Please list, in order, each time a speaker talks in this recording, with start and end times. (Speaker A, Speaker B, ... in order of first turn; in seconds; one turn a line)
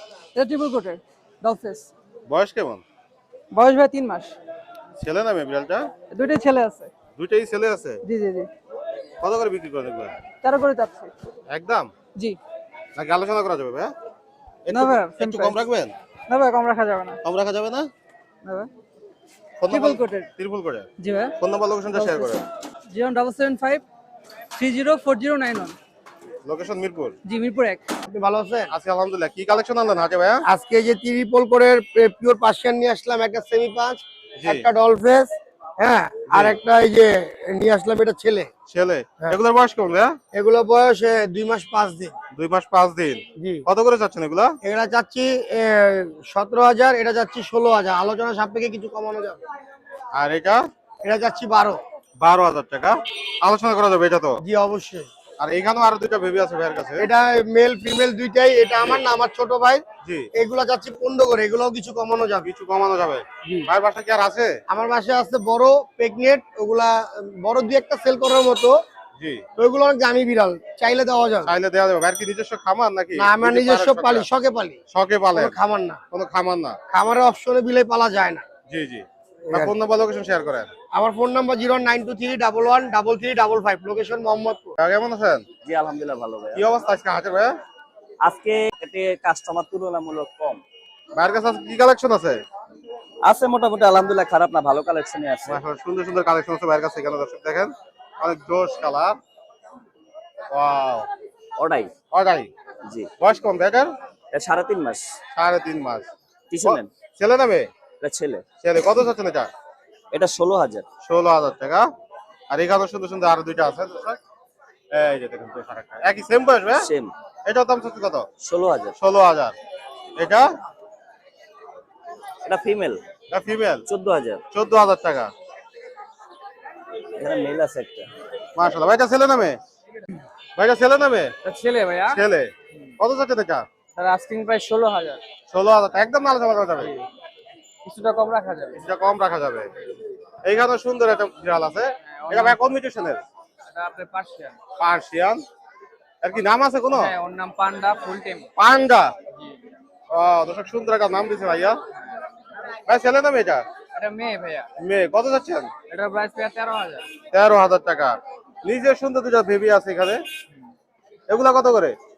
Speaker A: 0.3-1.9
Speaker B: 2.3-2.8
Speaker A: 3.5-4.4
Speaker B: 5.0-5.9
Speaker A: 6.1-6.9
Speaker B: 7.2-8.0
Speaker A: 8.0-8.5
Speaker B: 9.2-10.2
Speaker A: 10.4-11.1
Speaker B: 11.5-11.9
Speaker B: 13.0-13.9
Speaker B: 14.7-15.9
Speaker A: 14.7-15.6
Speaker A: 16.3-17.2
Speaker B: 17.2-17.9
Speaker B: 19.6-20.9
Speaker A: 19.7-20.3
Speaker A: 21.0-21.3
Speaker B: 21.4-22.4
Speaker A: 21.9-23.8
Speaker A: 24.6-25.8
Speaker B: 26.4-27.1
Speaker A: 27.2-27.8
Speaker C: 28.1-28.7
Speaker B: 28.7-30.4
Speaker C: 30.5-38.5
Speaker B: 34.4-34.7
Speaker B: 36.3-36.6
Speaker B: 38.7-40.2
Speaker C: 40.3-42.1
Speaker B: 42.3-44.5
Speaker C: 43.4-43.6
Speaker C: 44.6-49.4
Speaker B: 50.1-50.6
Speaker C: 51.0-51.8
Speaker B: 52.2-54.4
Speaker C: 54.4-55.1
Speaker B: 55.4-57.1
Speaker C: 57.0-59.8
Speaker B: 60.0-60.3
Speaker C: 60.4-62.5
Speaker B: 62.4-64.6
Speaker C: 64.7-68.8
Speaker B: 69.2-69.4
Speaker C: 69.6-71.5
Speaker B: 71.5-74.3
Speaker C: 73.2-74.8
Speaker B: 74.9-75.5
Speaker C: 75.3-76.0
Speaker B: 76.1-76.8
Speaker C: 76.9-78.4
Speaker B: 78.7-80.7
Speaker C: 80.9-84.8
Speaker B: 84.8-85.4
Speaker D: 85.7-86.6
Speaker B: 86.5-87.5
Speaker D: 88.2-90.6
Speaker B: 91.2-92.4
Speaker D: 93.2-95.6
Speaker B: 95.5-99.2
Speaker B: 100.5-101.1
Speaker D: 101.6-101.9
Speaker B: 102.1-102.5
Speaker B: 103.2-103.9
Speaker D: 104.3-105.0
Speaker B: 105.3-106.1
Speaker D: 106.5-106.9
Speaker B: 106.6-107.7
Speaker D: 108.0-108.4
Speaker B: 108.6-109.5
Speaker D: 110.1-110.9
Speaker B: 111.0-111.9
Speaker B: 112.5-114.2
Speaker B: 114.9-116.9
Speaker D: 116.8-117.1
Speaker B: 117.5-118.3
Speaker D: 118.4-118.9
Speaker B: 119.0-119.5
Speaker B: 120.2-120.5
Speaker D: 122.5-123.0
Speaker B: 123.3-123.8
Speaker D: 123.9-124.4
Speaker B: 124.5-125.3
Speaker D: 127.2-128.1
Speaker B: 128.6-129.6
Speaker B: 130.6-131.3
Speaker E: 131.4-132.2
Speaker B: 132.1-133.7
Speaker E: 134.0-135.2
Speaker B: 135.5-136.9
Speaker E: 137.8-138.8
Speaker B: 138.8-139.7
Speaker B: 140.4-143.2
Speaker E: 142.1-142.6
Speaker E: 143.7-144.6
Speaker B: 144.8-145.4
Speaker B: 146.2-147.1
Speaker E: 146.9-148.5
Speaker B: 148.6-149.1
Speaker B: 150.1-151.8
Speaker B: 152.9-153.7
Speaker E: 153.9-154.7
Speaker B: 154.8-155.7
Speaker E: 155.9-157.1
Speaker B: 157.3-160.2
Speaker B: 161.3-162.0